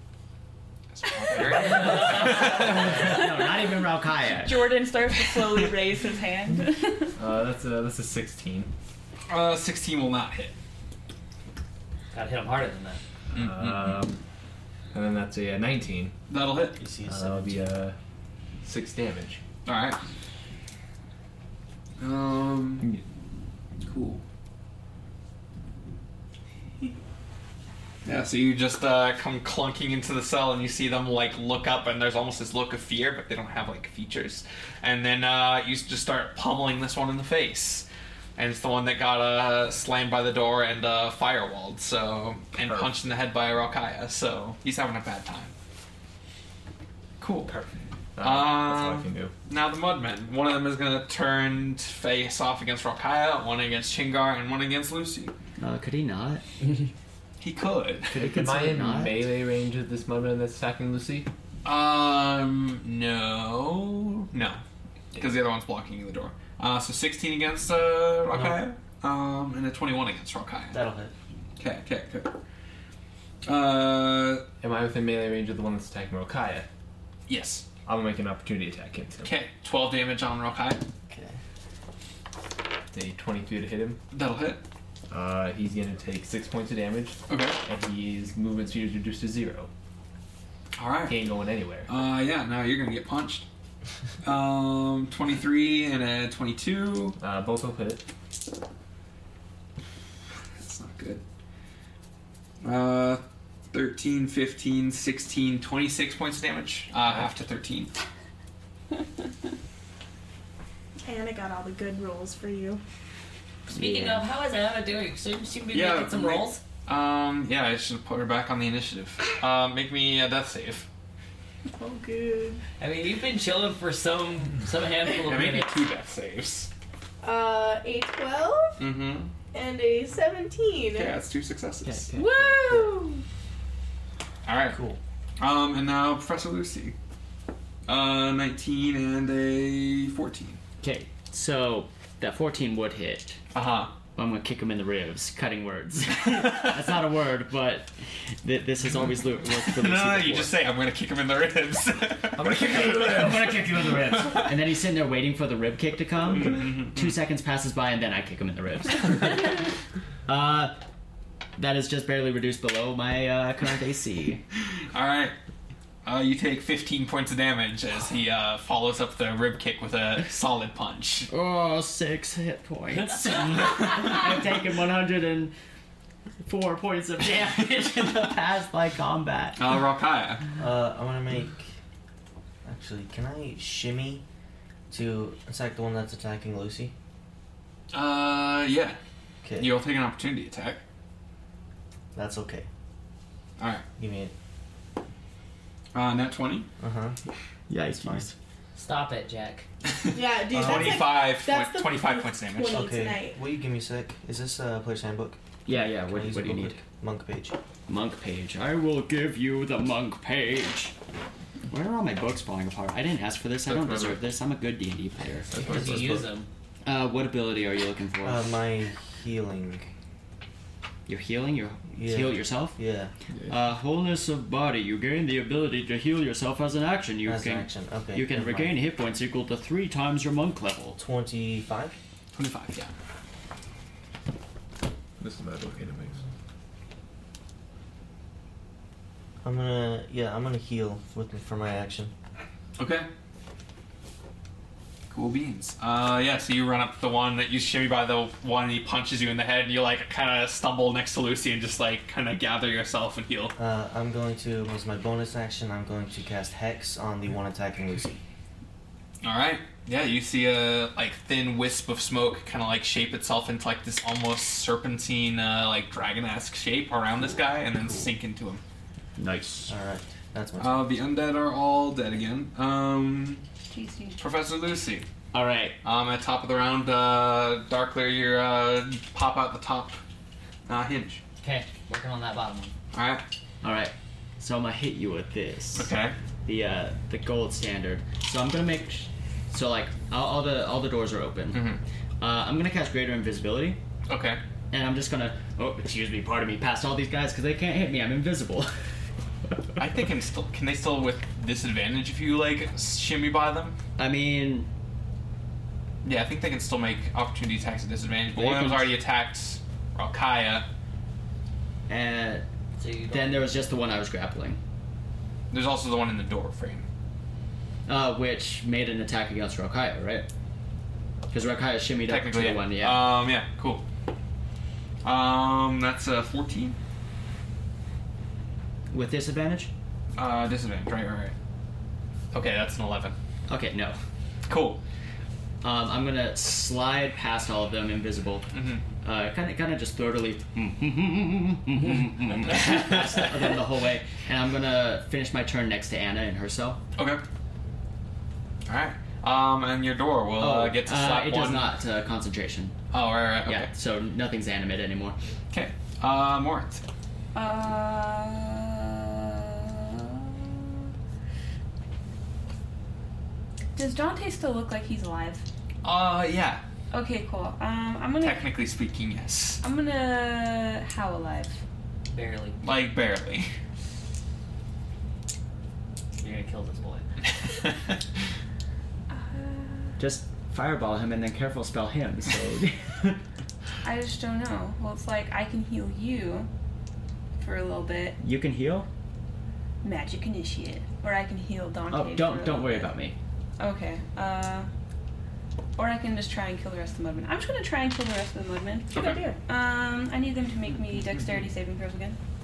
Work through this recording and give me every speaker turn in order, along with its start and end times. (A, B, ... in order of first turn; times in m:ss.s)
0:00.9-0:03.2 A
0:01.6-0:04.6 B
0:03.1-0:03.5 C
0:04.3-0:07.1 C
0:07.2-0:08.7 D
0:09.3-0:10.5 A
0:12.1-0:13.0 E
0:13.3-0:14.2 D
0:13.3-0:14.0 A
0:14.9-0:16.2 D
0:16.3-0:16.8 A
0:16.8-0:17.8 F
0:17.0-0:18.0 D
0:18.6-0:19.4 D
0:19.6-0:20.0 A
0:22.0-0:22.9 A
0:23.8-0:24.2 A
0:28.0-0:45.5 A
0:42.5-0:43.1 D
0:47.2-0:47.5 A
0:47.4-0:49.3 D
0:48.2-0:55.3 A
0:55.6-0:56.4 B
0:57.4-0:58.4 A
0:58.1-0:59.3 B
0:58.2-1:01.3 D
1:01.6-1:04.6 A
1:05.1-1:10.8 A
1:10.7-1:11.1 F
1:11.6-1:12.3 A
1:13.4-1:14.4 A
1:14.6-1:16.7 D
1:17.3-1:17.6 A
1:17.8-1:19.4 D
1:19.2-1:20.8 A
1:21.1-1:21.4 F
1:22.9-1:24.0 D
1:24.1-1:24.6 A
1:25.1-1:29.7 D
1:27.3-1:27.6 A
1:30.8-1:31.2 A
1:31.1-1:31.9 D
1:31.9-1:33.4 A
1:34.2-1:37.2 A
1:37.2-1:38.0 D
1:40.5-1:41.2 A
1:42.6-1:47.9 A
1:47.0-1:47.3 D
1:51.0-1:52.8 G
1:53.7-1:56.6 E
1:53.7-1:54.2 B
1:55.7-2:00.9 A
2:01.7-2:02.6 G
2:02.8-2:05.7 E
2:05.2-2:06.7 A
2:07.2-2:08.8 G
2:08.8-2:09.3 A
2:09.5-2:11.2 G
2:10.9-2:12.1 A
2:11.9-2:12.9 D
2:12.2-2:13.2 G
2:14.4-2:14.8 A
2:14.7-2:15.0 F
2:15.4-2:16.9 A
2:17.9-2:20.6 A
2:20.8-2:23.4 B
2:23.5-2:23.9 A
2:24.2-2:30.6 B
2:26.2-2:26.8 A
2:29.4-2:34.6 A
2:32.4-2:34.0 D
2:32.5-2:39.6 B
2:36.3-2:37.2 A
2:40.2-2:40.8 B
2:41.6-2:44.4 B
2:44.7-2:45.3 A
2:46.0-2:51.3 A
2:51.3-2:55.5 B
2:52.9-2:54.2 E
2:56.4-2:59.7 B
2:57.4-2:58.2 A
2:59.6-3:00.5 A
3:00.6-3:01.7 F
3:02.6-3:04.2 F
3:04.9-3:06.9 F
3:07.9-3:09.0 A
3:09.4-3:09.8 F
3:09.6-3:10.8 A
3:12.1-3:12.7 F
3:13.6-3:13.8 A
3:14.0-3:14.3 F
3:15.9-3:16.7 A
3:16.8-3:17.2 F
3:17.7-3:18.3 B
3:18.0-3:18.2 F
3:18.8-3:19.7 E
3:19.8-3:22.8 A
3:20.1-3:23.4 G
3:20.5-3:21.0 F
3:22.7-3:27.6 F
3:25.6-3:26.8 B
3:27.9-3:30.9 B
3:31.7-3:36.1 B
3:33.6-3:34.3 D
3:35.5-3:36.3 D
3:35.6-3:36.5 E
3:36.8-3:38.6 B
3:38.2-3:39.9 F
3:41.1-3:42.8 B
3:41.9-3:43.1 F
3:43.3-3:43.6 D
3:43.5-3:51.0 B
3:47.2-3:48.8 F
3:51.0-3:52.0 F
3:52.3-3:52.9 A
3:55.2-3:56.2 D
3:59.4-4:02.1 F
4:02.8-4:03.1 A
4:05.1-4:13.5 A
4:13.6-4:18.2 F
4:19.2-4:28.6 A
4:27.8-4:28.1 F
4:29.2-4:29.7 B
4:29.7-4:31.0 F
4:30.6-4:33.4 A
4:33.7-4:34.2 C
4:34.2-4:35.0 A
4:35.3-4:35.8 B
4:35.8-4:40.0 A
4:40.6-4:41.2 A
4:41.4-4:42.7 E
4:42.9-4:43.2 A
4:43.6-4:45.9 B
4:45.7-4:46.1 A
4:46.4-4:53.8 B
4:51.5-4:51.8 A
4:54.1-4:54.4 A
4:54.7-4:58.7 B
4:59.8-5:03.8 A
5:04.0-5:04.7 B
5:06.0-5:10.7 A
5:08.3-5:09.0 B
5:11.9-5:12.4 B
5:12.8-5:13.7 E
5:13.1-5:14.6 B
5:15.5-5:16.8 A
5:17.9-5:20.3 B
5:21.3-5:23.1 B
5:22.1-5:23.8 A
5:25.0-5:26.8 A
5:28.9-5:29.7 B
5:30.2-5:31.3 A
5:32.3-5:33.2 A
5:33.5-5:34.0 B
5:34.5-5:34.8 A
5:35.6-5:38.5 B
5:38.5-5:38.8 A
5:39.0-5:46.8 B
5:42.5-5:43.3 A
5:47.0-5:47.2 A
5:48.7-5:51.7 A
5:50.4-5:52.8 B
5:52.9-5:53.7 A
5:53.4-5:55.2 B
5:55.5-5:56.8 A
5:57.3-6:00.9 C
6:03.7-6:05.4 C
6:05.8-6:06.6 A
6:06.9-6:08.5 C
6:08.2-6:09.6 A
6:09.6-6:11.6 C
6:12.1-6:12.6 E
6:12.6-6:13.5 A
6:16.2-6:17.0 E
6:19.1-6:20.0 C
6:20.0-6:23.2 B
6:23.8-6:26.5 C
6:27.4-6:28.2 C
6:28.2-6:28.9 B
6:29.8-6:32.9 C
6:31.9-6:33.2 B
6:33.6-6:34.7 C
6:35.8-6:42.2 C
6:38.9-6:39.4 A
6:38.9-6:39.2 G
6:40.7-6:41.4 A